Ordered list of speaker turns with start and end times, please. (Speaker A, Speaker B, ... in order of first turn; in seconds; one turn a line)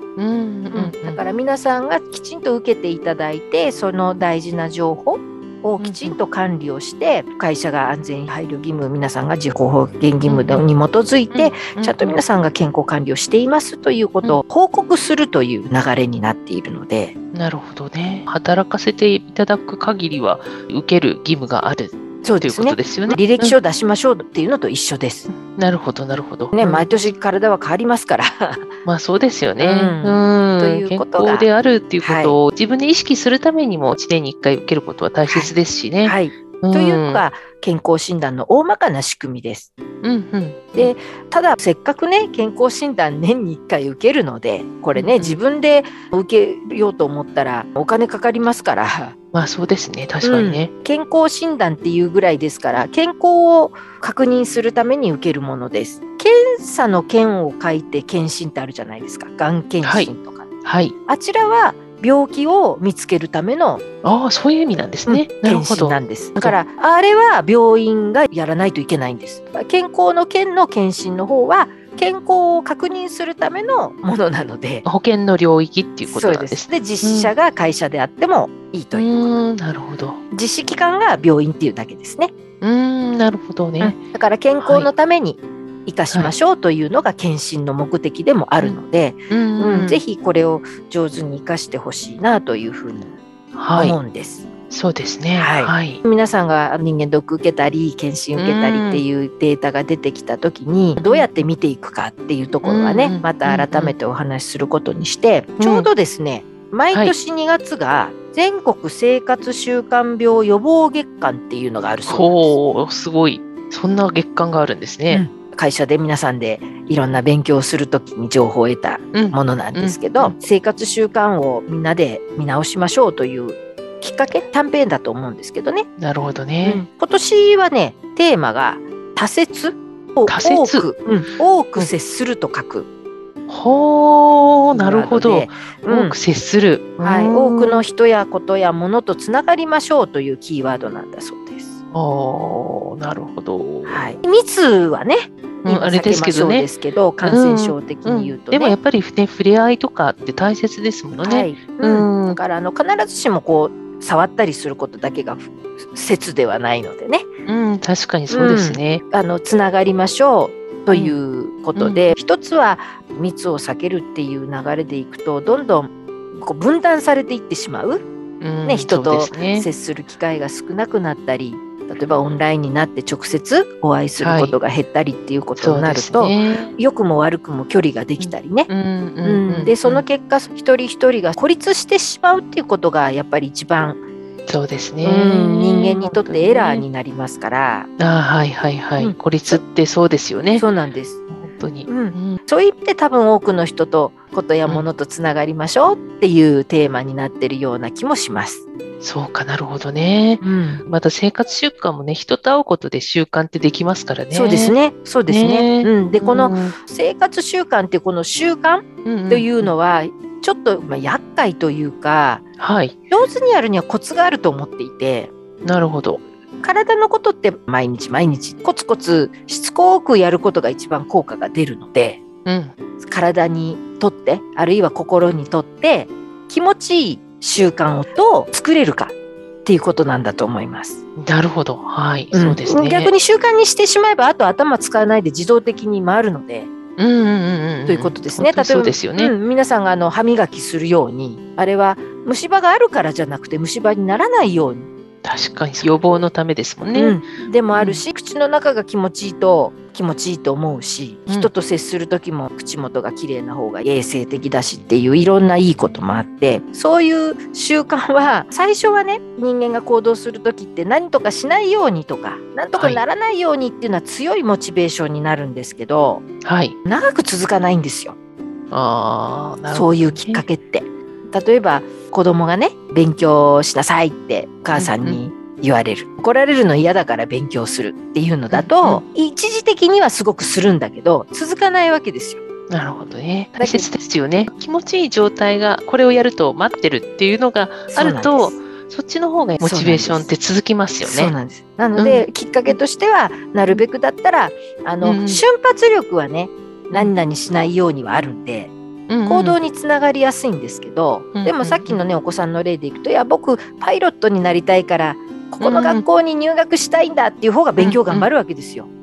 Speaker A: 0.2-1.2
Speaker B: 0.7-17.1
Speaker A: 5.8-6.2
Speaker A: 10.3-10.6
Speaker A: 11.3-12.2
Speaker A: 17.3-23.6
Speaker B: 22.2-25.3
Speaker A: 25.3-27.1
Speaker B: 26.6-28.7
Speaker A: 28.9-37.2
Speaker B: 29.6-31.5
Speaker B: 32.0-32.4
Speaker B: 35.3-39.7
Speaker A: 40.0-40.9
Speaker B: 40.8-49.1
Speaker A: 45.0-45.4
Speaker A: 49.3-50.7
Speaker B: 50.2-60.5
Speaker A: 59.8-60.1
Speaker A: 60.6-60.9
Speaker B: 61.1-63.8
Speaker A: 64.0-66.6
Speaker B: 65.1-74.9
Speaker A: 74.8-77.3
Speaker B: 76.1-79.3
Speaker A: 78.9-80.2
Speaker B: 80.3-82.3
Speaker A: 82.6-84.0
Speaker B: 83.8-93.2
Speaker A: 84.6-84.9
Speaker A: 89.3-90.0
Speaker A: 93.6-94.0
Speaker B: 93.8-94.5
Speaker A: 94.7-96.0
Speaker B: 95.4-112.6
Speaker A: 98.4-99.0
Speaker A: 101.0-101.3
Speaker A: 102.6-104.0
Speaker A: 105.6-105.9
Speaker A: 112.1-115.2
Speaker B: 115.1-125.9
Speaker A: 119.1-120.3
Speaker A: 126.0-126.8
Speaker B: 126.6-132.9
Speaker A: 130.3-130.9
Speaker A: 133.5-137.9
Speaker B: 134.7-136.2
Speaker B: 137.0-141.8
Speaker A: 141.9-144.1
Speaker B: 143.8-148.8
Speaker A: 145.7-146.7
Speaker A: 147.2-152.4
Speaker B: 151.2-157.3
Speaker A: 157.5-159.0
Speaker B: 158.3-168.0
Speaker A: 161.8-162.1
Speaker A: 168.4-169.7
Speaker B: 168.7-178.7
Speaker A: 174.2-174.6
Speaker A: 175.6-176.7
Speaker A: 178.2-180.0
Speaker B: 179.2-184.0
Speaker A: 184.5-186.9
Speaker B: 185.0-187.9
Speaker A: 188.0-190.6
Speaker B: 189.0-189.6
Speaker B: 190.6-191.2
Speaker A: 191.3-192.4
Speaker B: 191.9-198.6
Speaker A: 199.0-204.8
Speaker B: 200.4-200.8
Speaker B: 204.3-212.4
Speaker A: 205.3-206.8
Speaker A: 209.1-209.7
Speaker A: 212.6-212.9
Speaker B: 213.1-215.3
Speaker A: 215.7-216.2
Speaker B: 216.6-222.2
Speaker A: 222.4-222.7
Speaker B: 223.0-229.1
Speaker B: 229.7-231.0
Speaker A: 231.2-233.1
Speaker B: 232.3-236.7
Speaker A: 237.0-239.3
Speaker B: 237.9-244.9
Speaker A: 245.2-247.2
Speaker B: 246.9-266.2
Speaker A: 247.7-248.0
Speaker A: 262.8-263.0
Speaker A: 266.4-266.8
Speaker B: 266.9-268.2
Speaker A: 268.7-270.4
Speaker B: 269.7-282.4
Speaker A: 274.8-275.2
Speaker A: 278.5-279.0
Speaker A: 282.7-291.3
Speaker B: 283.6-283.9
Speaker B: 287.9-288.6
Speaker B: 289.6-290.3
Speaker B: 291.0-298.7
Speaker A: 292.0-292.8
Speaker A: 295.0-295.4
Speaker A: 299.1-299.6
Speaker B: 299.3-308.9
Speaker A: 301.4-302.0
Speaker A: 305.6-306.0
Speaker A: 307.8-308.3